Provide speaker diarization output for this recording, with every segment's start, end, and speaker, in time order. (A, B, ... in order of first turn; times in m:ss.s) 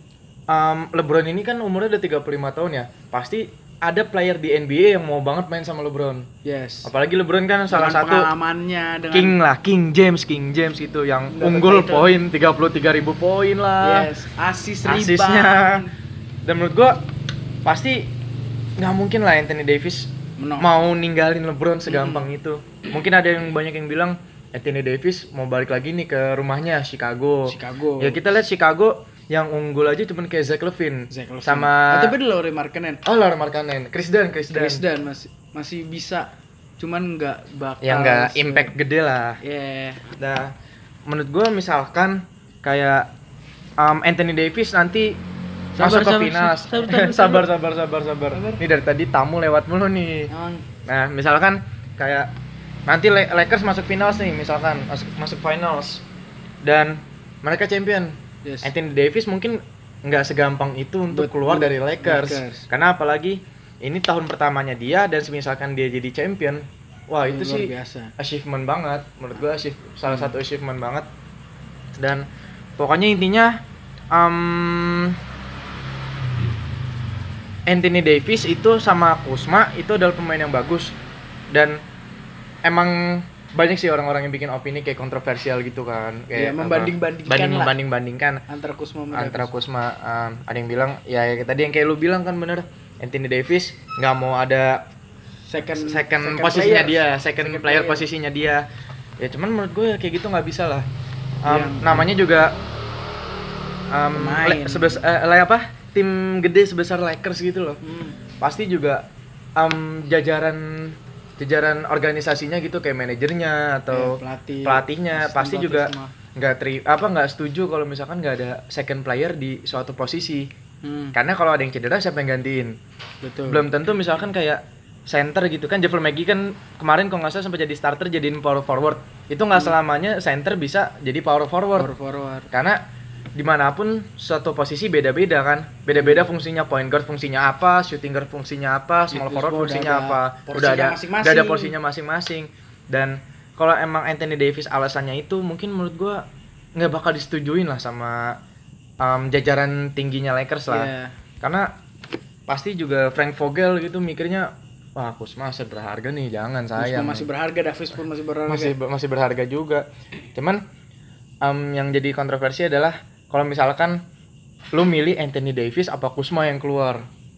0:00.5-0:06.3 A
0:06.4-0:06.9 B
0:06.8-0:08.3 A
0:07.7-0:09.4 B
0:09.1-0:14.1 A
0:11.3-0:12.1 B
0:13.8-0:15.9 B
0:14.8-0:15.9 A
0:16.4-0:17.0 A
0:17.6-0:18.1 A
0:18.8-0:32.1 A
0:20.4-0:20.7 B
0:21.9-0:22.3 B
0:27.5-0:28.2 B
0:31.1-0:33.0 B
0:33.0-0:34.8 A
0:34.5-0:38.7 B
0:37.8-0:39.4 A
0:39.4-0:40.0 B
0:40.2-0:40.5 A
0:41.0-0:43.1 A
0:43.8-0:45.2 A
0:45.7-0:47.5 B
0:45.8-0:50.3 A
0:48.3-0:48.6 B
0:50.3-0:50.6 B
0:50.8-0:52.3 A
0:52.9-0:56.0 A
0:56.6-1:11.1 A
0:58.4-0:58.7 B
1:01.1-1:02.6 B
1:07.2-1:08.1 B
1:10.1-1:10.3 B
1:12.0-1:12.2 A
1:12.8-1:13.6 A
1:14.1-1:15.2 A
1:17.7-1:21.0 A
1:21.5-1:21.8 A
1:22.6-1:28.4 A
1:26.3-1:27.8 B
1:28.5-1:29.5 B
1:29.1-1:34.8 A
1:35.5-1:38.0 B
1:35.8-1:38.6 A
1:39.2-1:40.8 A
1:41.4-1:42.5 A
1:41.5-1:42.1 B
1:43.9-1:47.8 A
1:44.1-1:45.0 B
1:47.8-1:48.2 B
1:48.4-1:49.0 A
1:49.6-2:00.5 A
1:53.9-1:56.1 B
2:00.8-2:01.2 B
2:01.1-2:02.8 A
2:03.2-2:03.7 B
2:03.4-2:11.9 A
2:11.8-2:12.5 B
2:12.5-2:12.8 A
2:13.4-2:26.2 A
2:15.9-2:16.3 B
2:19.1-2:21.7 B
2:26.8-2:28.4 A
2:29.0-2:31.8 A
2:30.7-2:31.1 B
2:32.5-2:37.3 A
2:36.8-2:38.8 B
2:38.5-2:40.6 A
2:41.4-2:44.0 A
2:44.7-2:47.0 A